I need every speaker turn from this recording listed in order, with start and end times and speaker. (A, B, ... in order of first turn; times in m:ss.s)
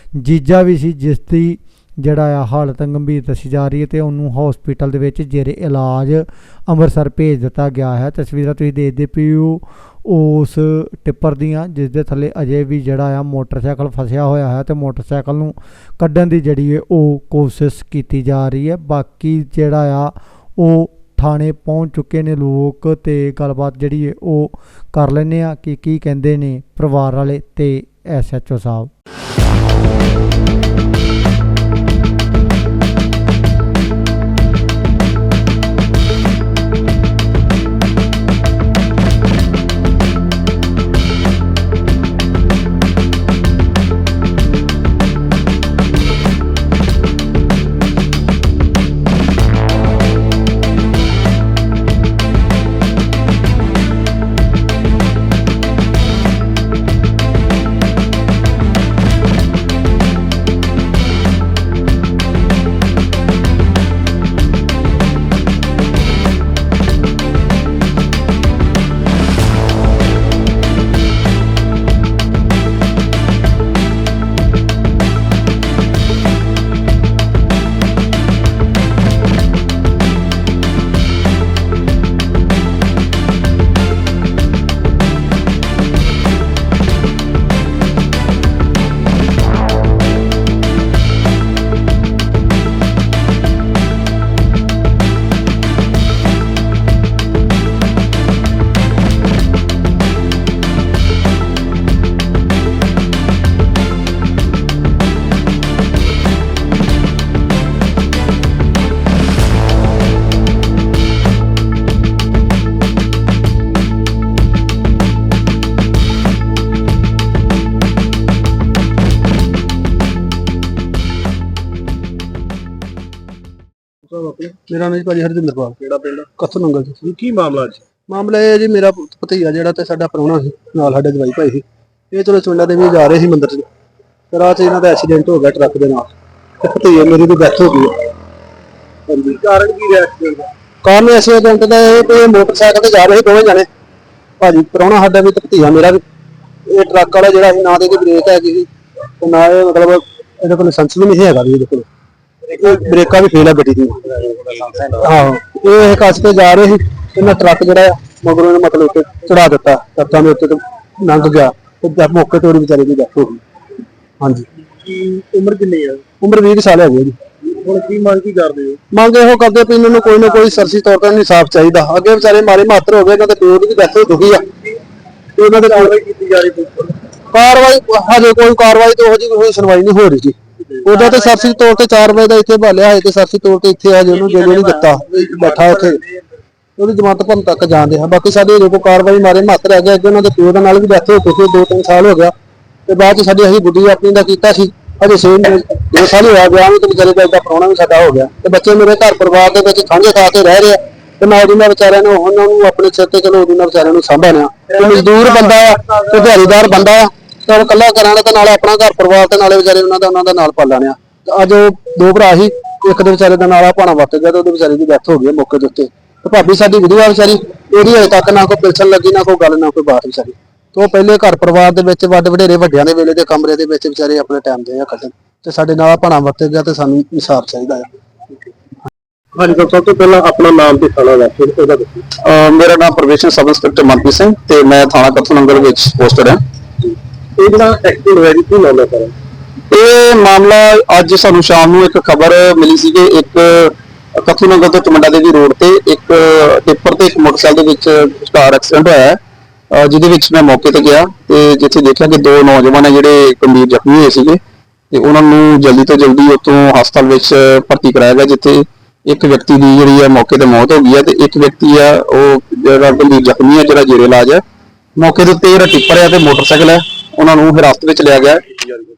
0:00.2-0:28.9 A
2:04.1-2:13.7 B
2:07.2-2:07.8 C
2:14.3-2:16.1 B
2:16.6-2:18.0 B
2:19.1-2:23.7 B
2:19.5-2:20.4 C
2:24.4-2:26.0 B
2:26.7-2:28.7 B
2:29.2-2:31.9 B
2:32.5-2:43.4 B
2:44.2-2:44.5 B
2:44.8-2:46.0 C
2:46.2-2:47.2 B
2:47.6-2:48.8 C
2:48.9-2:54.5 B
2:55.4-2:56.0 B
2:55.9-2:57.0 C
2:57.3-3:06.0 B
3:06.8-3:12.3 B
3:12.9-3:47.9 B
3:49.4-3:49.9 B
3:51.1-3:51.9 B
3:52.2-3:56.4 D
3:57.4-3:59.1 B
3:59.7-4:09.2 D
4:09.7-4:14.4 D
4:14.9-4:24.4 D
4:25.0-4:28.7 D